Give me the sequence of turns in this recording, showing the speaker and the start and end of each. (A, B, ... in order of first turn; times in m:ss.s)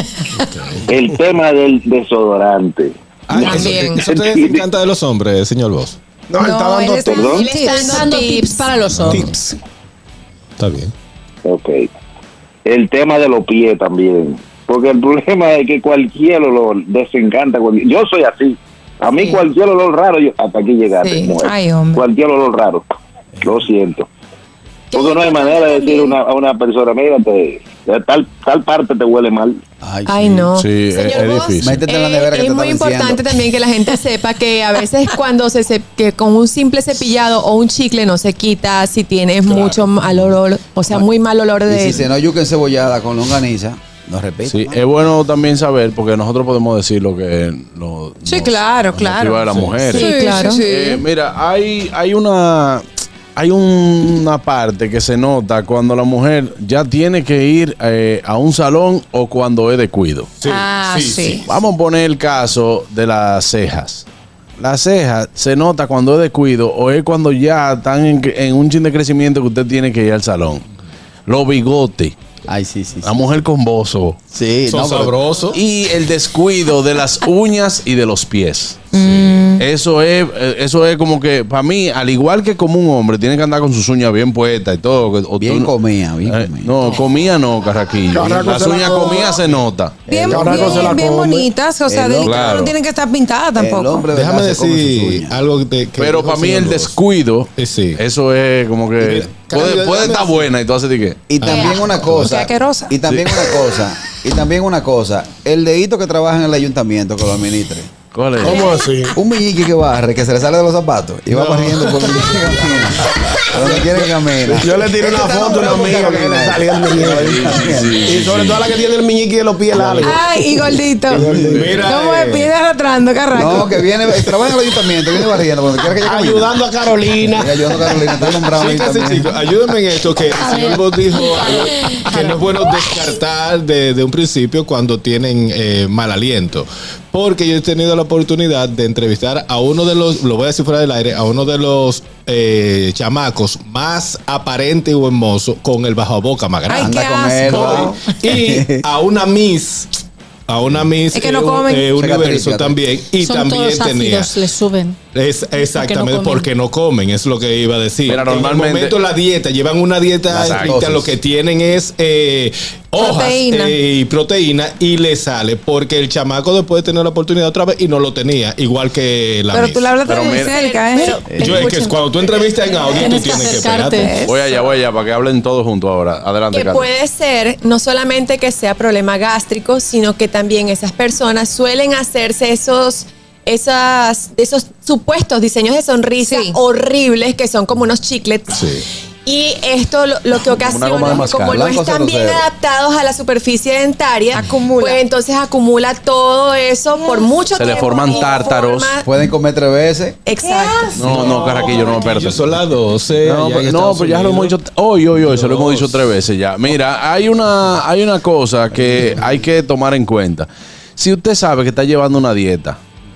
0:00.4-0:00.8 A
0:00.9-0:04.6 B
0:03.3-0:06.0 A
0:03.4-0:04.0 C
0:06.3-0:07.4 D
0:06.4-0:08.1 E
0:07.1-0:08.6 C
0:07.6-0:09.5 F
0:10.6-0:10.9 A
0:11.4-0:11.9 B
0:12.6-0:22.9 B
0:21.4-0:22.0 E
0:23.4-0:24.1 B
0:24.9-0:26.2 C
0:24.9-0:29.6 B
0:29.8-0:30.5 G
0:30.1-0:42.1 C
0:30.5-0:31.8 H
0:31.6-0:33.3 G
0:39.5-0:39.8 H
0:41.6-0:44.8 G
0:44.5-0:52.8 H
0:48.2-0:51.0 E
0:49.9-0:50.6 C
0:53.3-1:00.3 H
1:00.4-1:01.4 A
1:00.4-1:01.4 E
1:01.4-1:04.0 H
1:04.6-1:10.6 H
1:11.3-1:12.1 H
1:12.5-1:13.2 G
1:13.0-1:14.2 H
1:14.3-1:15.2 G
1:14.7-1:15.6 A
1:15.5-1:25.7 H
1:18.9-1:19.6 E
1:25.4-1:26.8 G
1:26.2-1:30.0 H
1:28.1-1:29.4 D
1:30.1-1:34.0 E
1:30.1-1:31.0 G
1:30.3-1:31.5 D
1:31.9-1:32.5 G
1:32.2-1:32.7 H
1:33.6-1:35.4 G
1:34.1-1:36.9 A
1:36.0-1:41.2 H
1:37.6-1:38.0 A
1:39.0-1:40.4 A
1:41.3-1:47.9 G
1:41.4-1:42.3 A
1:41.4-1:41.8 C
1:42.2-1:42.9 E
1:48.1-1:48.6 H
1:48.4-1:49.1 D
1:49.2-1:58.0 G
1:51.3-1:54.0 A
1:54.5-1:57.5 D
1:57.0-1:58.6 H
1:58.0-2:00.2 D
1:59.8-2:00.1 G
2:00.0-2:03.7 E
2:01.1-2:01.8 D
2:01.2-2:01.6 G
2:01.3-2:02.5 A
2:03.3-2:06.5 G
2:06.0-2:07.6 D
2:07.3-2:09.3 G
2:08.2-2:30.0 A
2:10.4-2:12.4 F
2:26.7-2:27.9 E
2:26.8-2:28.8 G
2:30.5-2:34.3 A
2:31.1-2:31.9 E
2:32.0-2:32.8 G
2:33.2-2:35.0 F
2:35.1-2:50.0 A
2:35.6-2:36.5 F
2:38.1-2:39.0 H
2:40.3-2:41.1 G
2:40.4-2:40.8 H
2:43.0-2:43.7 E
2:43.0-2:43.3 C
2:49.5-2:51.7 E
2:50.0-2:50.6 H
2:50.5-2:51.4 C
2:51.3-2:51.6 G
2:51.3-2:54.2 A
2:51.4-2:51.9 F
2:52.2-2:52.8 C
2:52.9-2:54.1 F
2:53.9-2:54.6 E
2:54.2-2:56.9 H
2:56.5-3:08.6 C
3:06.2-3:06.6 E
3:08.5-3:08.8 A
3:09.2-3:19.0 C
3:10.5-3:11.6 H
3:11.0-3:12.4 G
3:14.3-3:15.0 E
3:17.5-3:19.0 H
3:19.0-3:20.2 G
3:20.2-3:21.0 C
3:20.9-3:22.6 H
3:20.9-3:24.5 A
3:23.2-3:32.8 H
3:25.2-3:26.0 A
3:28.8-3:29.2 G